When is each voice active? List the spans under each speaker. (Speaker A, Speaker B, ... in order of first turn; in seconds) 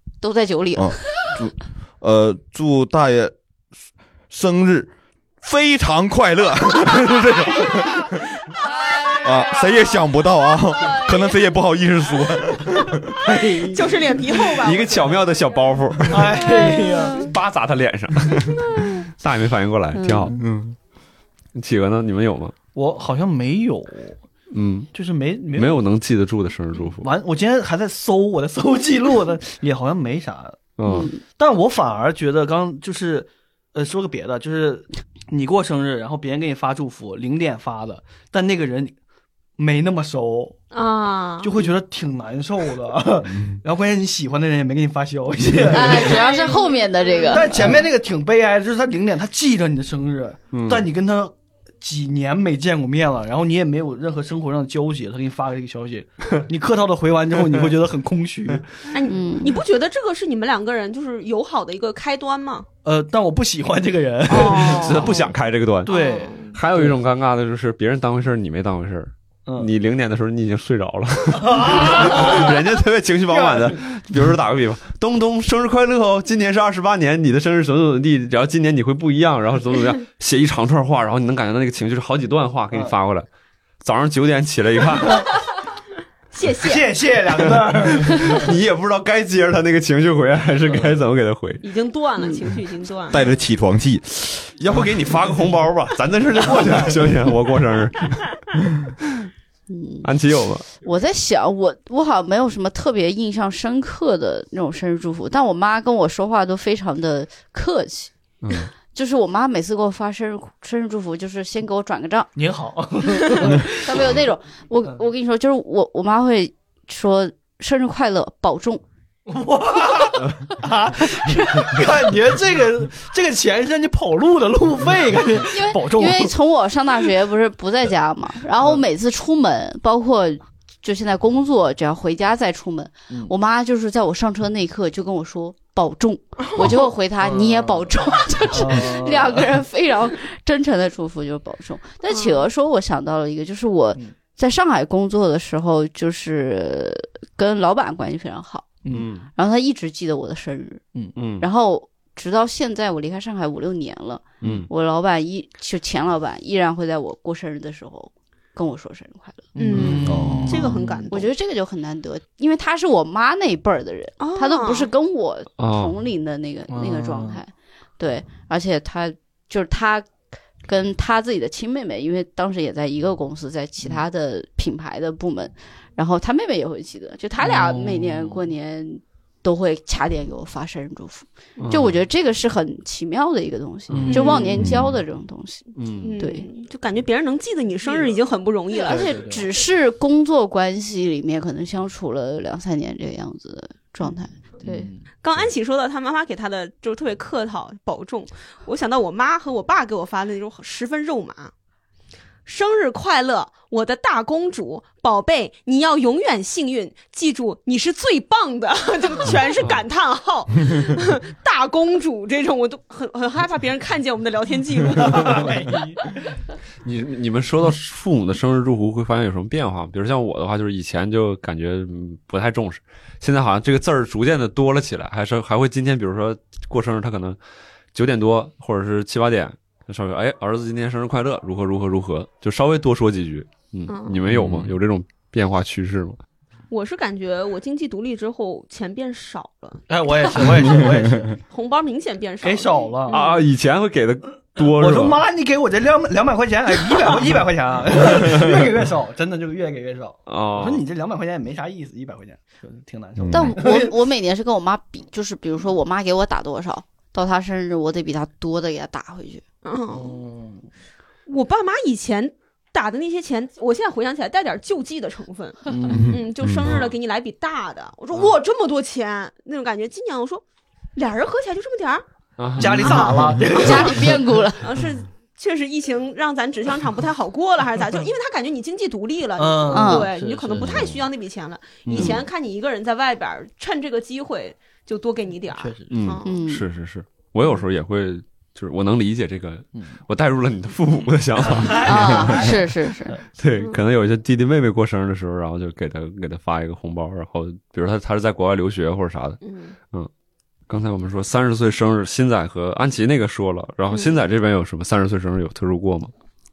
Speaker A: 0.2-1.0, 19.9-20.4, 30.9-31.2, 45.7-47.8, 59.1-59.6, 99.7-100.1, 100.8-108.1, 108.9-112.3, 113.4-118.8, 121.1-121.8, 125.4-148.7, 149.4-150.8, 151.4-159.5, 161.1-170.1, 170.7-186.5, 188.8-194.9, 253.3-259.4, 273.5-274.7, 279.7-280.1, 286.2-286.6, 291.8-293.2
Speaker B: 0.8-3.3, 4.3-4.9, 5.4-8.2, 9.2-13.3, 20.4-20.8, 50.5-50.8, 93.1-94.4, 160.0-160.7, 184.6-185.0, 234.3-234.7, 253.2-253.6, 265.9-266.7, 280.6-281.0
Speaker C: 6.9-7.5, 13.4-13.7, 14.3-16.5, 17.1-20.4, 21.6-22.6, 24.5-24.9, 25.5-27.1, 30.8-31.1, 64.3-83.3, 83.8-85.3, 88.0-91.6, 94.6-98.3, 100.0-100.7, 108.4-108.7, 148.9-149.3, 151.2-151.5, 154.4-154.7, 159.8-160.0, 165.6-166.0, 181.6-182.0, 185.8-186.2, 216.8-227.4, 227.9-236.2, 243.1-245.2, 250.3-250.9, 266.6-266.9, 272.4-273.1, 281.9-282.2, 285.9-292.6, 293.4-299.4, 300.7-306.1
Speaker D: 13.3-15.2, 40.7-41.6, 45.8-47.5, 58.9-62.7, 64.3-65.3, 65.9-66.5, 86.3-86.9, 91.6-93.2, 142.1-142.4, 159.6-161.3, 164.2-164.9, 184.1-184.5, 186.0-189.1, 195.2-201.5, 202.5-215.5, 233.9-234.2, 236.7-239.8, 241.5-243.4, 259.6-260.2, 261.3-270.4, 270.9-272.0, 272.7-273.9, 274.6-286.4, 299.4-299.8, 303.9-304.2
Speaker E: 16.1-17.3, 22.8-24.2, 24.9-25.8, 27.0-30.6, 31.2-39.0, 39.6-40.6, 41.4-46.3, 47.3-58.9, 62.8-65.2, 65.8-67.0, 71.4-72.6, 73.3-73.8, 86.6-88.5, 90.7-91.0, 96.5-97.0, 112.4-113.9, 119.3-126.3, 137.2-137.9, 138.5-139.6, 148.8-149.1, 159.6-161.1, 166.7-167.4, 177.4-178.4, 183.9-184.6, 187.9-188.2, 188.9-189.5, 194.6-195.1, 215.0-216.1, 239.9-241.4, 242.4-243.2, 244.6-254.0, 259.9-260.7, 265.7-266.1, 272.6-274.3, 279.4-280.9, 285.6-285.9, 291.4-293.2